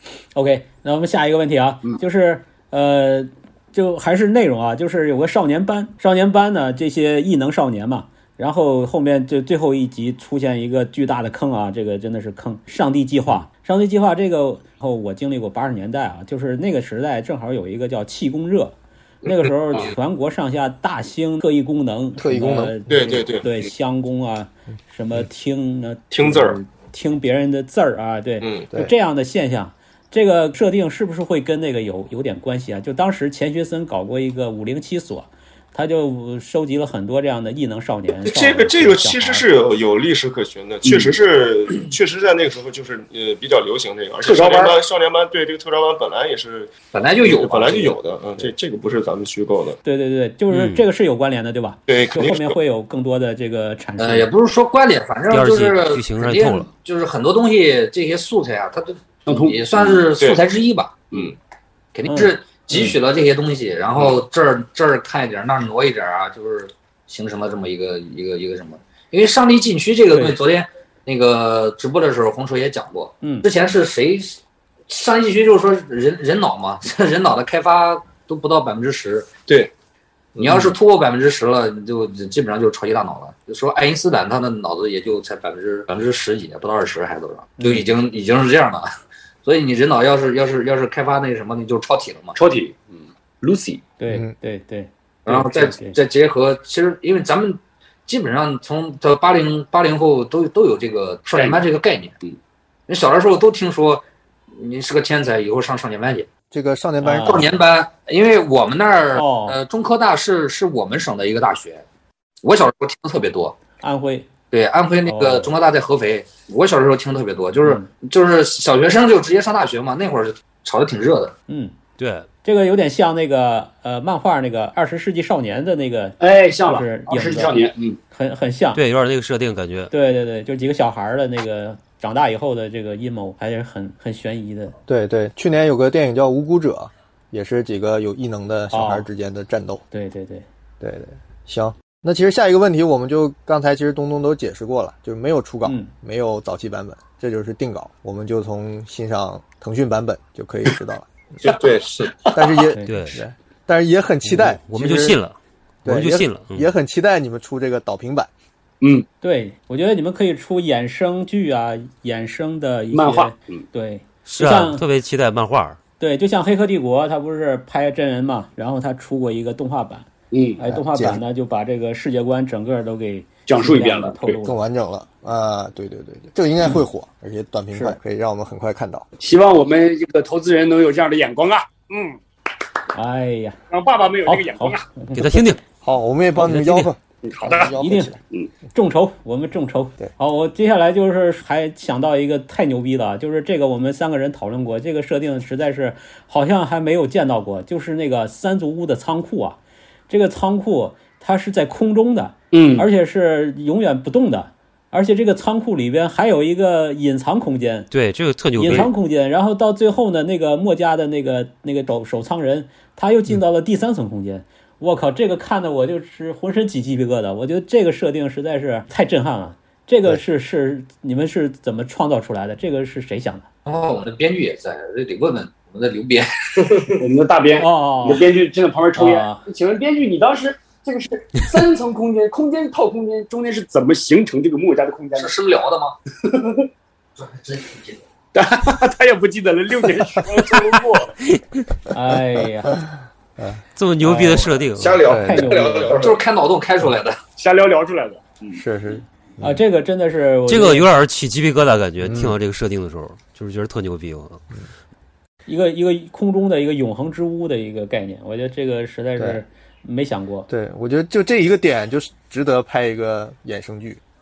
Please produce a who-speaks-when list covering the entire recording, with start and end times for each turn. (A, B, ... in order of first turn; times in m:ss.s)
0:00.3-0:39.4 A
0:22.2-0:23.0 B
0:22.9-0:23.7 C
0:26.1-0:26.6 C
0:28.4-0:28.7 C
0:38.2-0:49.8 C
0:40.8-0:41.2 D
0:44.2-0:44.8 D
0:46.9-0:48.0 E
0:49.8-0:54.3 A
0:50.5-0:50.8 F
0:51.9-0:52.6 C
0:54.0-1:01.1 E
0:55.3-0:56.7 F
0:59.2-1:00.0 D
1:01.9-1:14.4 E
1:02.1-1:02.9 A
1:13.2-1:13.5 A
1:14.9-1:19.3 E
1:20.4-1:28.9 E
1:27.6-1:27.9 A
1:29.4-1:32.4 E
1:32.3-1:33.8 D
1:34.0-1:36.0 A
1:34.1-1:34.3 B
1:35.2-1:42.1 E
1:41.3-1:41.6 D
1:42.9-1:46.3 E
1:46.5-1:47.6 B
1:47.0-1:47.4 A
1:47.2-1:51.8 E
1:49.1-1:49.6 A
1:52.4-1:53.6 E
1:53.8-1:54.3 A
1:54.5-2:01.3 E
1:55.0-1:55.5 A
2:01.5-2:01.8 A
2:02.0-2:02.3 F
2:02.4-2:08.8 A
2:06.2-2:08.0 D
2:08.7-2:09.9 F
2:09.9-2:14.7 A
2:14.9-2:19.8 B
2:18.7-2:19.1 A
2:19.9-2:20.4 A
2:20.8-2:31.1 B
2:25.6-2:25.9 A
2:31.4-2:32.0 C
2:32.1-2:32.5 D
2:32.3-2:35.2 B
2:32.6-2:32.9 A
2:32.9-2:33.2 F
2:34.3-2:36.7 F
2:35.8-2:38.3 B
2:38.8-2:39.1 D
2:39.2-2:44.8 A
2:42.9-2:43.6 D
2:44.2-2:45.8 F
2:46.0-2:54.5 A
2:50.3-2:50.6 D
2:50.7-2:51.2 B
2:53.4-2:54.4 D
2:54.4-2:59.1 B
2:59.2-3:02.2 D
3:02.9-3:03.6 A
3:03.7-3:04.9 D
3:04.2-3:05.4 A
3:05.1-3:05.6 F
3:05.8-3:08.2 B
3:06.4-3:06.9 F
3:07.2-3:07.8 D
3:07.7-3:08.1 A
3:08.7-3:27.9 A
3:22.5-3:22.9 D
3:27.9-3:28.9 F
3:28.6-3:43.5 A
3:43.6-3:47.0 E
3:47.0-3:55.4 D
3:47.6-3:48.2 A
3:48.9-3:49.4 A
3:55.1-3:56.0 E
3:56.3-3:56.6 D
3:58.3-4:01.1 D
4:01.9-4:02.8 A
4:03.8-4:05.0 F
4:04.0-4:05.9 A
4:04.8-4:06.2 C
4:05.0-4:05.6 B
4:06.0-4:07.2 E
4:07.4-4:08.6 D
4:08.6-4:09.6 B
4:09.4-4:10.9 A
4:10.5-4:14.4 F
4:12.0-4:12.4 B
4:15.5-4:20.5 A
4:19.2-4:19.4 B
4:20.5-4:24.0 B